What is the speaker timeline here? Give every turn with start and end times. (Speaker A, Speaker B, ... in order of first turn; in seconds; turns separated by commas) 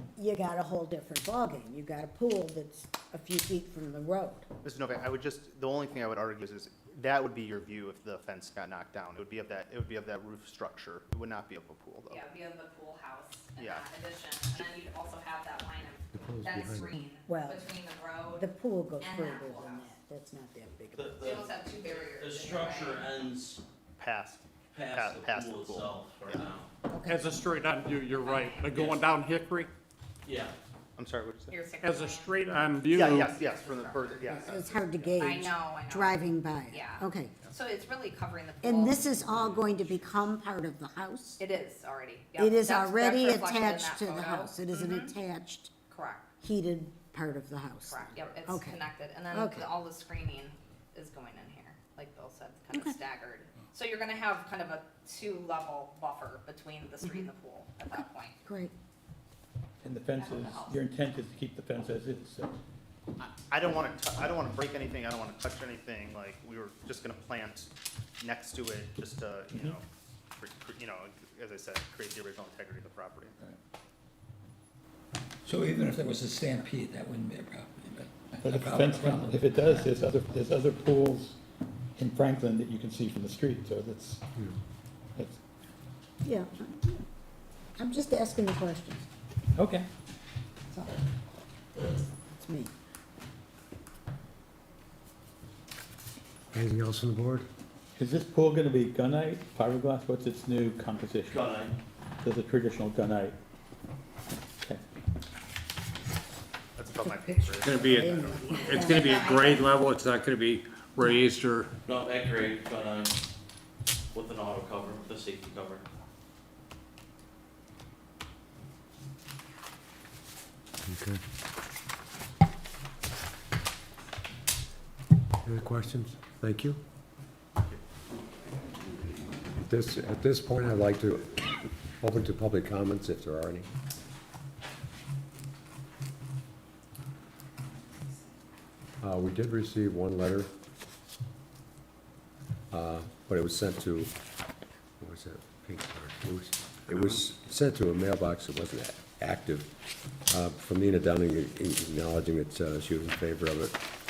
Speaker A: 0.2-4.5, Speaker B: 4.6-12.2, Speaker C: 12.1-18.5, Speaker B: 13.6-13.8, Speaker D: 16.1-17.0, Speaker A: 17.3-21.4, Speaker C: 19.0-19.9, Speaker E: 21.0-23.6, Speaker C: 21.2-23.2, Speaker B: 24.0-26.5, Speaker E: 24.7-26.7, Speaker A: 26.9-27.3, Speaker F: 27.1-29.7, Speaker C: 28.1-28.8, Speaker E: 28.7-29.1, Speaker E: 30.2-30.6, Speaker B: 31.0-31.6, Speaker C: 31.5-34.4, Speaker F: 31.8-33.3, Speaker B: 32.9-35.1, Speaker A: 34.3-37.3, Speaker C: 35.2-39.7, Speaker A: 38.6-41.4, Speaker C: 41.4-45.1, Speaker A: 42.4-45.7, Speaker C: 45.9-46.3, Speaker A: 46.4-49.7, Speaker C: 47.9-58.4, Speaker B: 48.1-48.4, Speaker A: 52.7-53.0, Speaker A: 57.0-57.3, Speaker A: 58.5-58.7, Speaker G: 59.8-62.5, Speaker C: 60.2-60.8, Speaker B: 63.2-69.9, Speaker B: 70.4-73.3, Speaker H: 75.4-79.9, Speaker G: 78.4-81.4, Speaker G: 82.0-84.3, Speaker A: 86.2-87.0, Speaker A: 87.8-89.1, Speaker G: 89.6-89.9, Speaker A: 92.3-92.7, Speaker D: 96.5-97.5, Speaker G: 98.0-101.6, Speaker E: 101.3-101.8, Speaker G: 102.2-103.4, Speaker B: 106.8-108.7, Speaker A: 107.0-109.6, Speaker I: 107.6-111.7, Speaker C: 109.1-109.6, Speaker E: 111.9-113.2, Speaker E: 114.1-115.8, Speaker D: 120.9-121.2, Speaker D: 125.4-126.8, Speaker D: 129.6-131.4, Speaker D: 132.0-133.7, Speaker D: 139.0-140.5, Speaker D: 142.7-144.2, Speaker D: 145.0-149.8, Speaker D: 150.3-153.8